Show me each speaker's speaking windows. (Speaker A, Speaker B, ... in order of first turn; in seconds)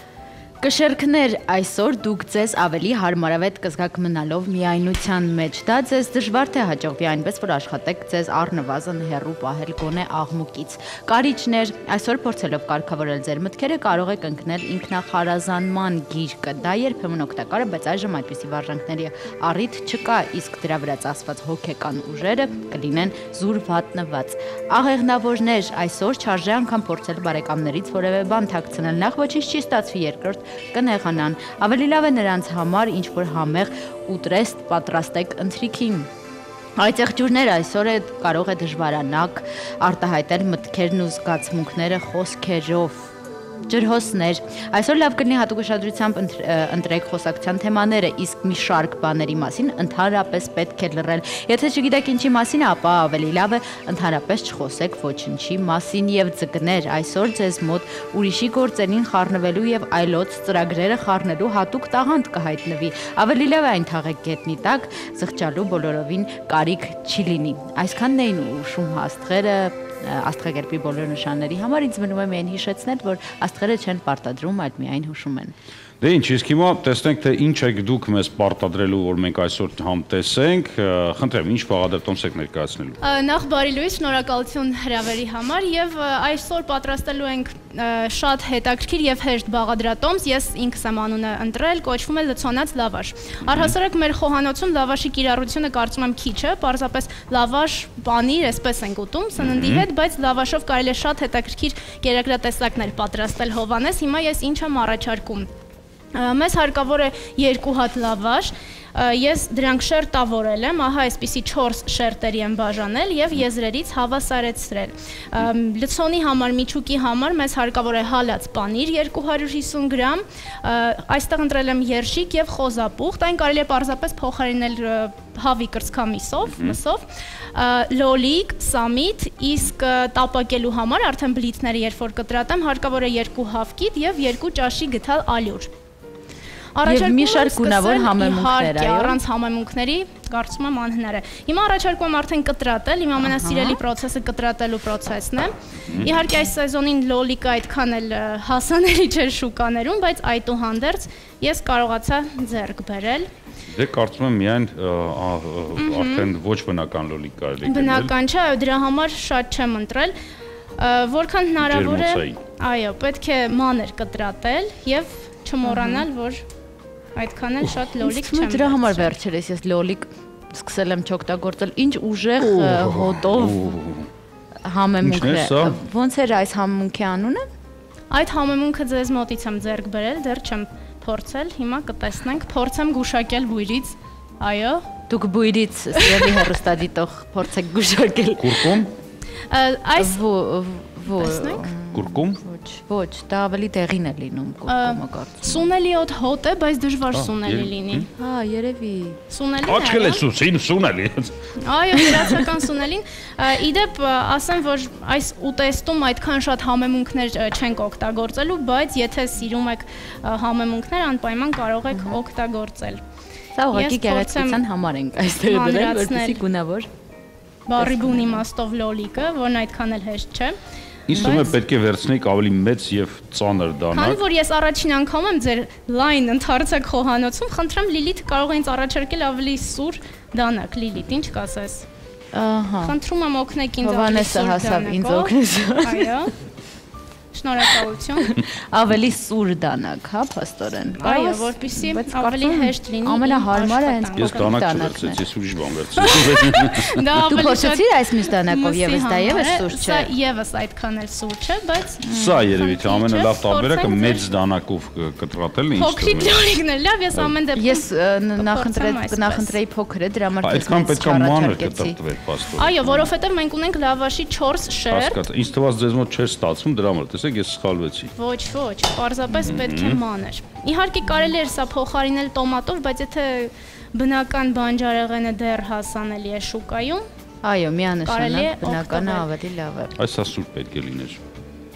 Speaker A: 0.6-36.1, 36.8-43.1, 43.7-75.5, 136.8-139.2, 143.2-143.8, 165.7-166.1, 168.0-173.8, 174.6-177.4, 185.1-188.8, 190.0-195.7, 198.2-199.2, 211.9-212.2, 213.6-216.9, 217.8-218.4, 232.3-233.0, 233.8-236.1, 238.2-245.2, 247.3-250.1, 252.0-252.5, 257.6-262.0, 277.4-280.0
Speaker B: 76.0-83.0, 93.5-93.7, 99.4-99.8, 126.5-126.8, 153.7-158.1, 161.6-162.4, 172.4-174.1, 175.0-175.8, 188.4-188.9, 191.9-192.4, 197.1-198.1, 199.6-201.4, 221.1-224.2, 244.2-247.0, 252.1-256.5, 260.4-263.1, 264.9-268.1, 269.4-270.0, 280.0-281.2
Speaker C: 83.0-105.5, 106.1-135.7, 136.8-153.3, 155.8-156.3, 157.7-160.2, 160.8-166.4, 167.2-169.1, 178.1-184.9, 186.0-186.3, 189.5-190.2, 191.1-191.7, 194.7-198.1, 199.3-200.2, 201.6-213.0, 213.7-214.6, 215.4-216.4, 217.7-220.6, 221.1-221.5, 223.9-231.9, 232.8-236.3, 237.3-238.4, 241.0-244.6, 246.0-254.3, 255.8-257.8, 258.4-259.6, 262.6-265.2, 268.1-277.1, 278.1-279.3